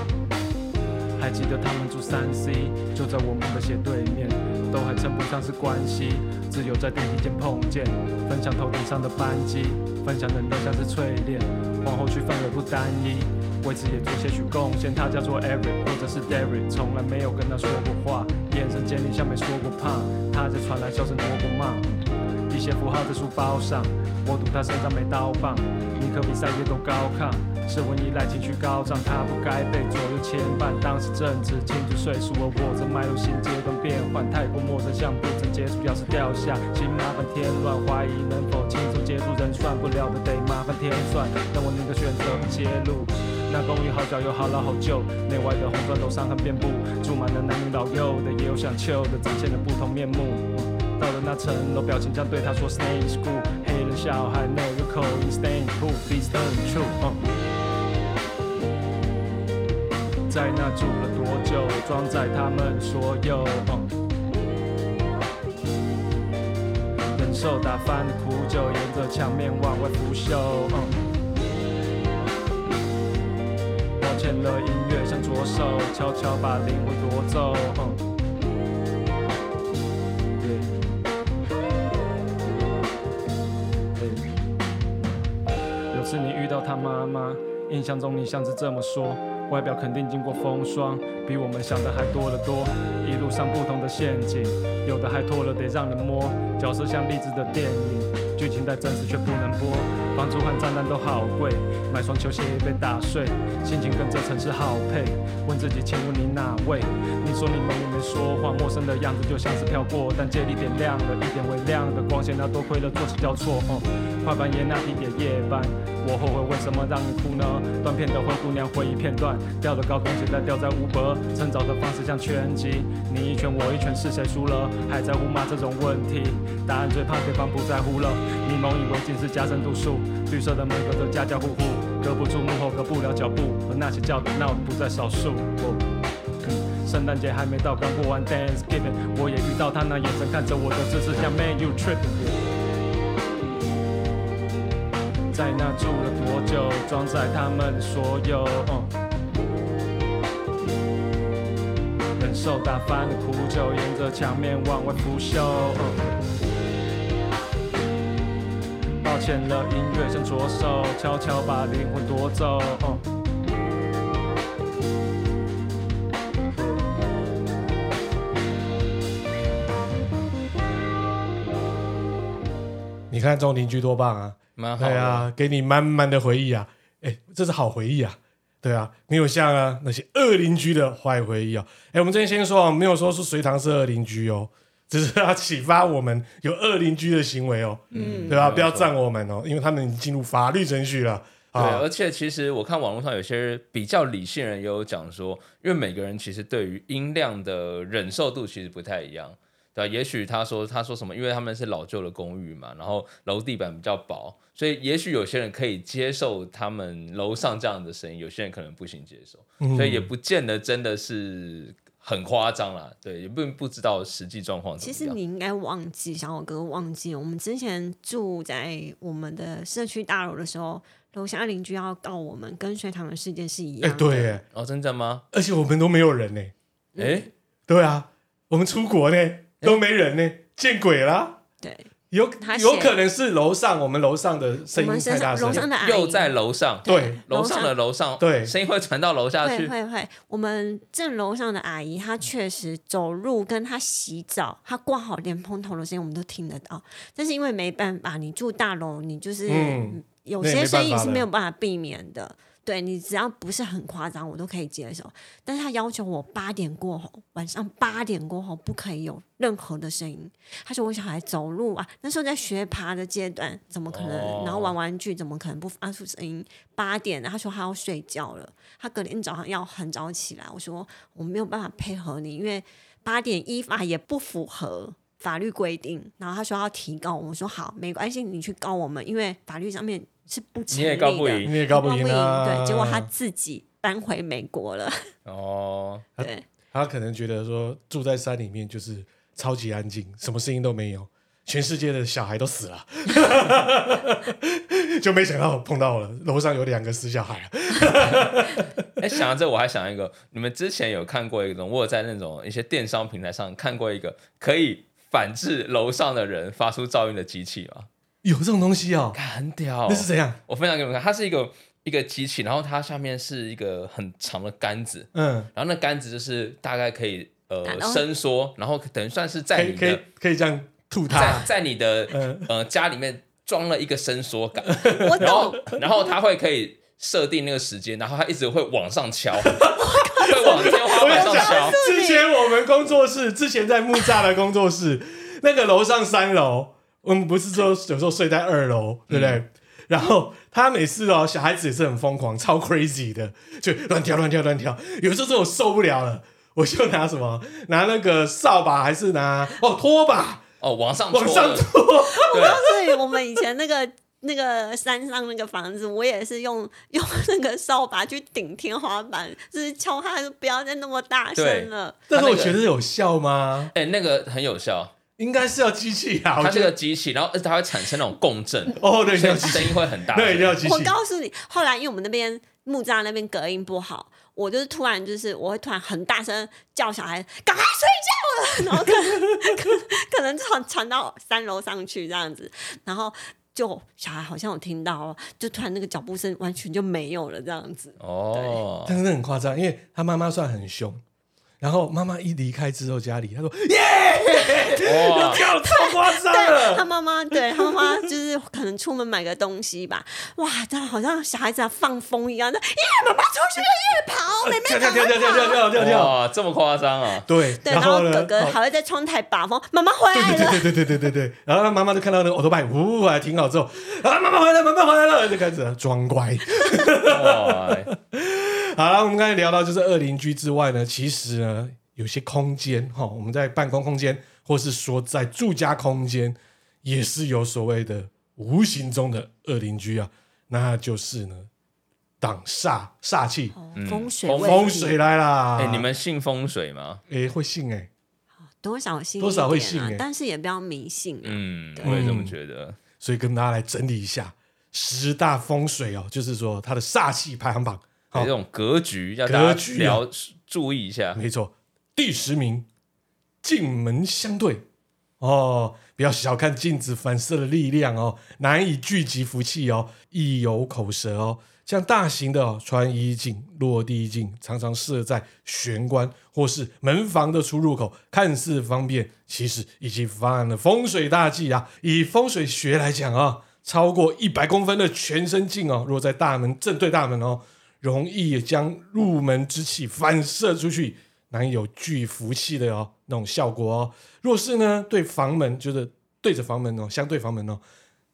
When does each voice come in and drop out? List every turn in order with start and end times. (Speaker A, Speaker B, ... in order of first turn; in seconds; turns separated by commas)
Speaker A: 1.2-57.2, Speaker A: 60.3-63.9, Speaker A: 67.1-71.0, Speaker A: 74.0-78.0, Speaker A: 80.4-80.7, Speaker A: 84.0-84.3, Speaker A: 85.9-135.8, Speaker A: 136.4-142.4, Speaker A: 145.3-148.9, Speaker A: 152.2-156.1, Speaker A: 159.0-163.0, Speaker B: 173.1-191.8, Speaker C: 174.6-175.3, Speaker C: 187.9-188.9, Speaker D: 187.9-188.4, Speaker C: 191.5-215.2, Speaker B: 209.6-210.1, Speaker D: 214.8-224.3, Speaker B: 223.8-224.4, Speaker C: 224.5-225.2, Speaker B: 225.3-226.5, Speaker D: 226.9-227.3, Speaker C: 227.0-227.3, Speaker B: 227.7-231.4, Speaker D: 231.6-231.9, Speaker B: 232.1-235.7, Speaker D: 232.4-233.0, Speaker D: 234.7-236.3, Speaker C: 235.5-239.7, Speaker D: 236.8-237.7, Speaker B: 236.8-237.2, Speaker B: 238.2-238.5, Speaker D: 239.4-285.1, Speaker B: 249.5-251.2, Speaker C: 263.9-264.7, Speaker C: 280.7-281.6, Speaker B: 281.4-283.1, Speaker C: 285.2-286.0, Speaker D: 286.2-286.4, Speaker B: 286.2-298.8, Speaker C: 299.0-307.9, Speaker B: 308.2-309.2, Speaker C: 309.1-320.0, Speaker B: 309.9-310.4, Speaker B: 315.1-315.5, Speaker D: 317.6-318.0, Speaker B: 319.5-321.5, Speaker C: 321.1-331.8, Speaker B: 322.1-322.5, Speaker B: 324.7-325.7, Speaker D: 324.9-325.8, Speaker B: 329.4-350.4, Speaker D: 329.8-332.4, Speaker C: 339.1-339.4, Speaker C: 350.6-351.7, Speaker B: 351.1-352.7, Speaker D: 352.1-362.0, Speaker C: 352.3-352.6, Speaker C: 361.4-362.6, Speaker B: 362.1-363.7, Speaker C: 363.7-364.9, Speaker B: 365.2-366.7, Speaker C: 366.4-370.6, Speaker B: 368.8-370.9, Speaker D: 370.6-388.6, Speaker B: 378.8-379.6, Speaker C: 388.0-389.0, Speaker B: 388.9-391.0, Speaker B: 391.6-398.0, Speaker D: 394.3-405.7, Speaker C: 394.8-395.4, Speaker B: 404.4-406.1, Speaker C: 405.7-407.3, Speaker B: 407.2-408.6, Speaker D: 407.6-410.7, Speaker B: 410.1-431.5, Speaker C: 417.0-417.9, Speaker B: 432.2-433.5, Speaker D: 433.5-434.9, Speaker C: 433.8-434.8, Speaker B: 434.4-435.9, Speaker C: 435.6-437.0, Speaker B: 437.1-437.9, Speaker D: 438.6-442.0, Speaker B: 439.2-440.0, Speaker C: 441.2-442.8, Speaker B: 441.8-442.3, Speaker B: 443.0-448.3, Speaker C: 448.1-451.2, Speaker B: 449.2-450.0, Speaker B: 451.1-452.7, Speaker B: 453.4-454.6, Speaker B: 455.2-487.6